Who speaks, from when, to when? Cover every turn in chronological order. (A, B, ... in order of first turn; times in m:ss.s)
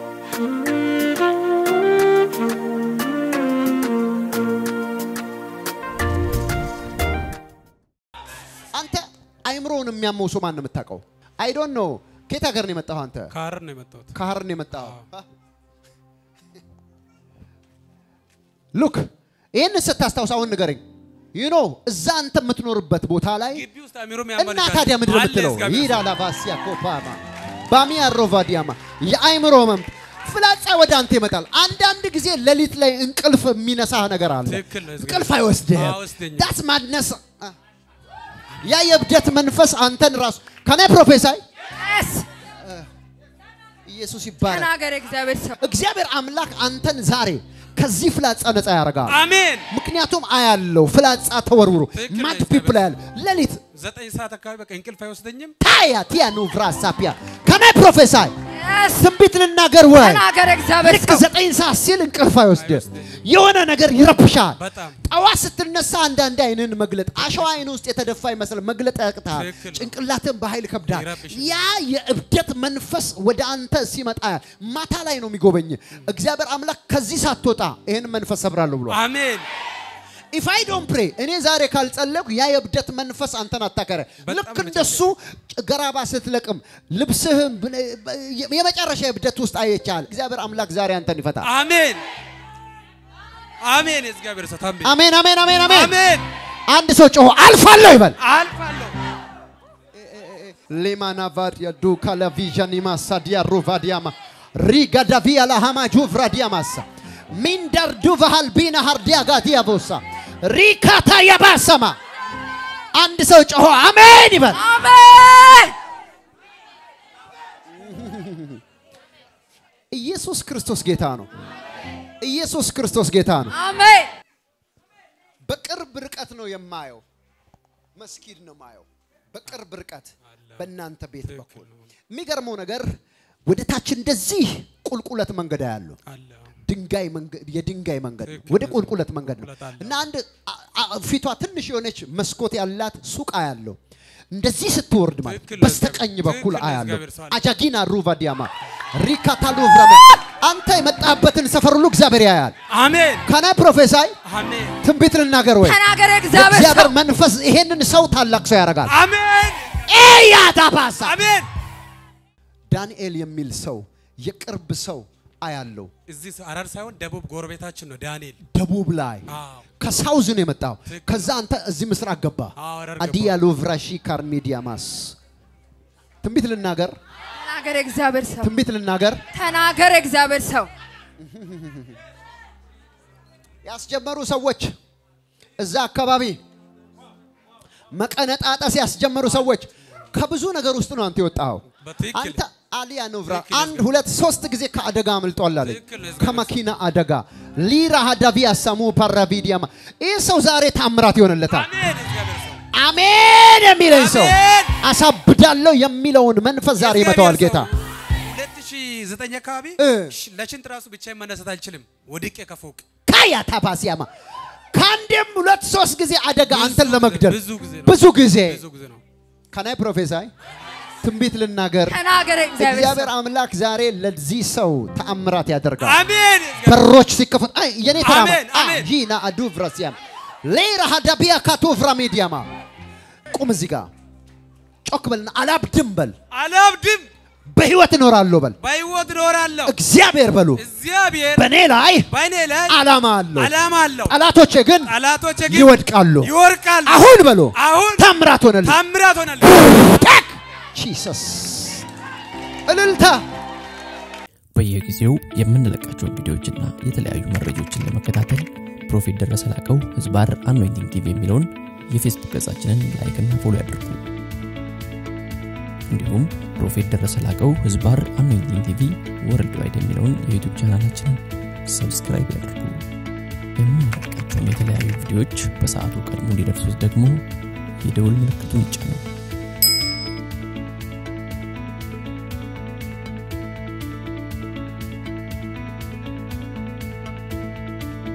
0:08.7-0:13.3 A
0:13.3-0:14.1 B
0:14.1-0:15.2 A
0:14.7-0:15.0 B
0:18.7-0:20.8 A
0:21.3-0:23.6 A
0:23.5-0:26.1 B
0:24.4-0:37.5 A
0:34.4-0:36.5 B
0:38.6-0:41.4 A
0:41.8-0:42.2 C
0:43.9-0:44.7 A
0:44.4-0:45.6 C
0:45.6-0:49.2 A
0:49.1-0:49.7 B
0:49.7-0:53.6 A
0:51.9-0:52.9 B
0:53.7-0:55.5 B
0:55.6-0:58.3 A
0:58.5-0:59.0 C
0:58.9-1:00.2 A
0:59.9-1:01.2 C
1:00.8-1:19.0 A
1:02.5-1:03.2 B
1:04.6-1:05.0 B
1:09.3-1:09.9 B
1:10.8-1:11.7 B
1:18.9-1:19.4 B
1:20.3-1:31.5 A
1:24.2-1:25.1 B
1:31.4-1:32.0 B
1:33.6-1:34.9 B
1:34.8-1:35.9 A
1:35.7-1:36.2 B
1:36.7-1:38.2 A
1:38.2-1:39.0 B
1:40.0-1:52.0 A
1:52.9-1:54.6 A
1:54.5-1:55.7 C
1:57.7-1:58.6 A
1:59.9-2:01.3 A
2:02.2-2:03.6 A
2:03.5-2:04.1 C
2:05.4-2:07.0 A
2:08.0-2:16.0 A
2:11.2-2:11.8 B
2:16.0-2:16.5 B
2:16.6-2:23.8 A
2:18.2-2:20.0 B
2:24.3-2:32.5 A
2:25.2-2:27.4 B
2:32.7-2:33.2 B
2:33.2-2:34.1 A
2:34.2-2:34.8 B
2:34.8-2:38.9 A
2:35.6-2:36.9 C
2:38.8-2:39.9 B
2:39.8-2:41.2 A
2:41.0-2:41.5 B
2:42.7-2:45.9 A
2:46.1-2:48.4 B
2:48.5-2:49.3 A
2:49.3-2:49.6 B
2:49.8-2:55.2 A
2:50.9-2:51.3 B
2:52.6-2:53.4 B
2:56.2-2:57.0 A
2:57.4-2:58.5 C
2:58.4-2:59.2 A
2:59.3-3:00.7 C
3:01.2-3:02.0 A
3:03.6-3:04.7 A
3:05.6-3:06.4 A
3:07.9-3:21.7 A
3:11.8-3:12.4 B
3:13.3-3:13.9 B
3:15.6-3:16.5 B
3:21.5-3:22.6 B
3:22.7-3:27.7 A
3:23.9-3:24.8 B
3:26.8-3:32.8 B
3:29.8-3:30.1 A
3:33.1-3:34.1 A
3:34.7-3:38.6 A
3:36.5-3:39.0 B
3:39.5-3:40.3 A
3:41.0-3:42.0 A
3:41.9-3:43.1 C
3:42.6-3:46.0 A
3:45.8-3:46.8 B
3:46.6-3:52.5 A
3:48.0-3:48.9 B
3:53.3-3:53.9 A
3:54.8-3:56.1 A
3:56.3-3:57.1 B
3:57.5-3:58.6 A
3:58.6-3:59.7 B
3:59.6-4:00.6 A
4:00.6-4:01.5 B
4:01.4-4:02.1 A
4:02.1-4:02.8 B
4:02.7-4:03.5 A
4:03.3-4:04.2 B
4:04.0-4:04.9 A
4:04.8-4:07.0 B
4:05.5-4:06.3 A
4:06.8-4:08.8 A
4:07.6-4:08.1 B
4:08.6-4:09.9 B
4:09.4-4:11.8 A
4:12.7-4:13.2 A
4:14.5-4:24.1 D
4:25.9-4:32.8 D
4:33.6-4:37.2 D
4:37.8-4:39.0 D